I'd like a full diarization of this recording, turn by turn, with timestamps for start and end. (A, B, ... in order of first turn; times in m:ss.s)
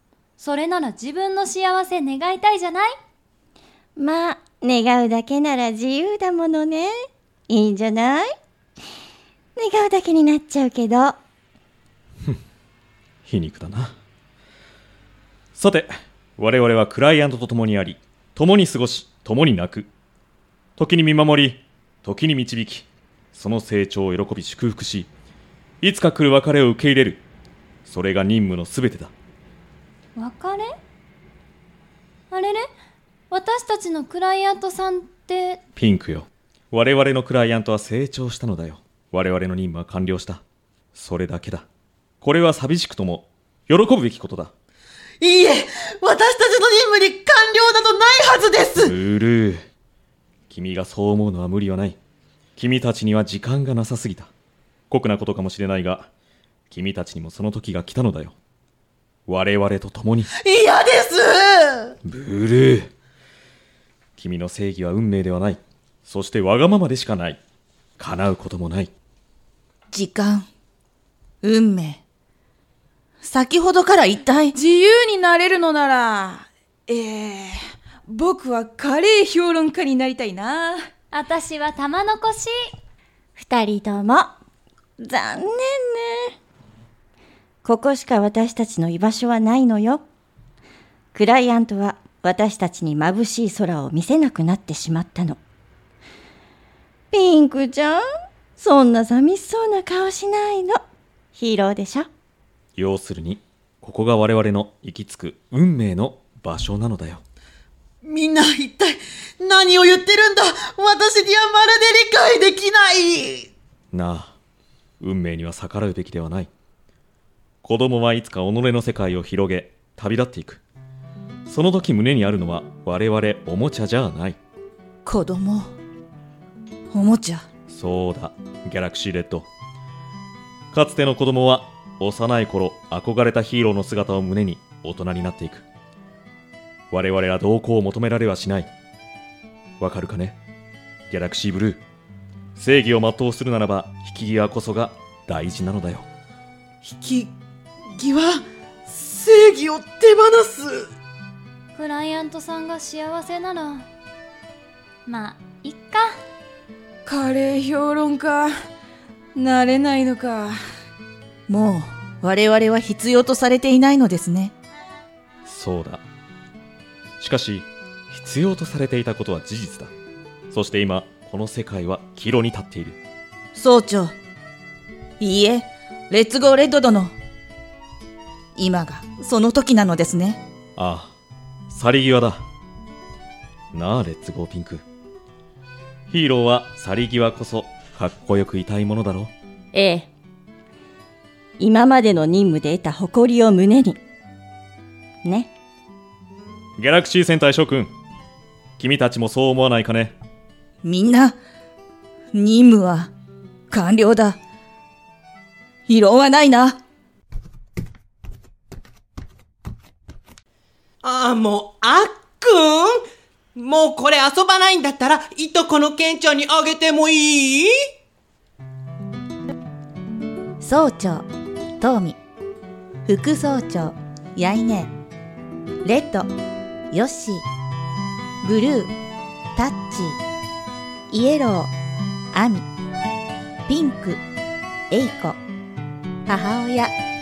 0:00.4-0:02.9 A
0:04.0-0:06.9 B
0:07.5-0:08.3 B
0:09.6-0:11.2 B
0:13.3-0:13.9 C
0:15.6-0:19.9 C
0:20.8-0:25.1 C
0:25.8-0:27.2 C
0:27.8-0:29.1 C
0:30.2-0:30.7 A
0:32.3-0:32.7 A
0:33.3-0:35.6 A
0:35.8-0:40.4 C
0:40.9-0:41.6 C
0:42.2-0:44.5 C
0:45.2-0:48.9 D
0:48.8-0:49.6 C
0:50.5-0:52.0 C
0:52.6-0:54.3 C
0:54.9-0:56.1 C
0:56.7-0:58.3 C
0:59.3-1:00.3 C
1:00.3-1:01.9 D
1:02.0-1:02.9 C
1:04.2-1:07.4 C
1:08.0-1:08.9 C
1:09.9-1:10.5 E
1:11.4-1:12.0 E
1:13.2-1:14.5 E
1:14.5-1:20.8 F
1:21.1-1:22.7 A
1:23.4-1:24.4 B
1:25.0-1:26.3 B
1:27.6-1:30.0 B
1:31.1-1:35.4 B
1:37.1-1:38.0 B
1:38.6-1:40.8 B
1:41.3-1:42.1 B
1:42.8-1:47.2 C
1:48.0-1:53.5 D
1:53.9-1:54.4 C
1:55.0-1:56.5 C
1:57.6-2:00.6 C
2:01.4-2:04.4 C
2:05.0-2:05.7 E
2:06.9-2:07.4 E
2:07.7-2:09.5 C
2:10.7-2:15.6 C
2:16.9-2:18.7 C
2:19.8-2:20.4 C
2:21.1-2:21.8 C
2:22.6-2:26.0 C
2:26.8-2:27.3 D
2:28.0-2:30.9 D
2:31.7-2:33.9 A
2:35.0-2:36.1 A
2:37.0-2:38.5 F
2:39.3-2:40.6 F
2:41.5-2:44.5 E
2:45.4-2:46.0 C
2:47.2-2:49.9 C
2:50.5-2:53.0 C
2:53.5-2:54.1 E
2:55.2-2:57.1 E
2:58.6-3:00.4 E
3:00.8-3:01.1 C
3:01.7-3:02.4 C
3:03.7-3:04.8 C
3:06.1-3:09.3 C
3:09.7-3:10.1 B
3:11.6-3:14.0 B
3:15.2-3:15.5 B
3:16.8-3:17.9 C
3:18.8-3:20.1 C
3:20.8-3:21.4 E
3:22.3-3:23.1 E
3:23.7-3:24.4 E
3:25.9-3:26.8 E
3:31.0-3:32.9 G
3:33.6-3:37.7 G
3:40.6-3:41.3 E
3:41.8-3:42.2 E
3:43.0-3:44.9 E
3:45.8-3:46.3 E
3:46.9-3:47.4 E
3:48.4-3:48.9 E
3:49.6-3:50.2 E
3:51.1-3:51.7 E
3:52.3-3:52.6 E
3:53.7-3:54.2 E
3:54.9-3:55.4 E
3:56.3-3:56.9 E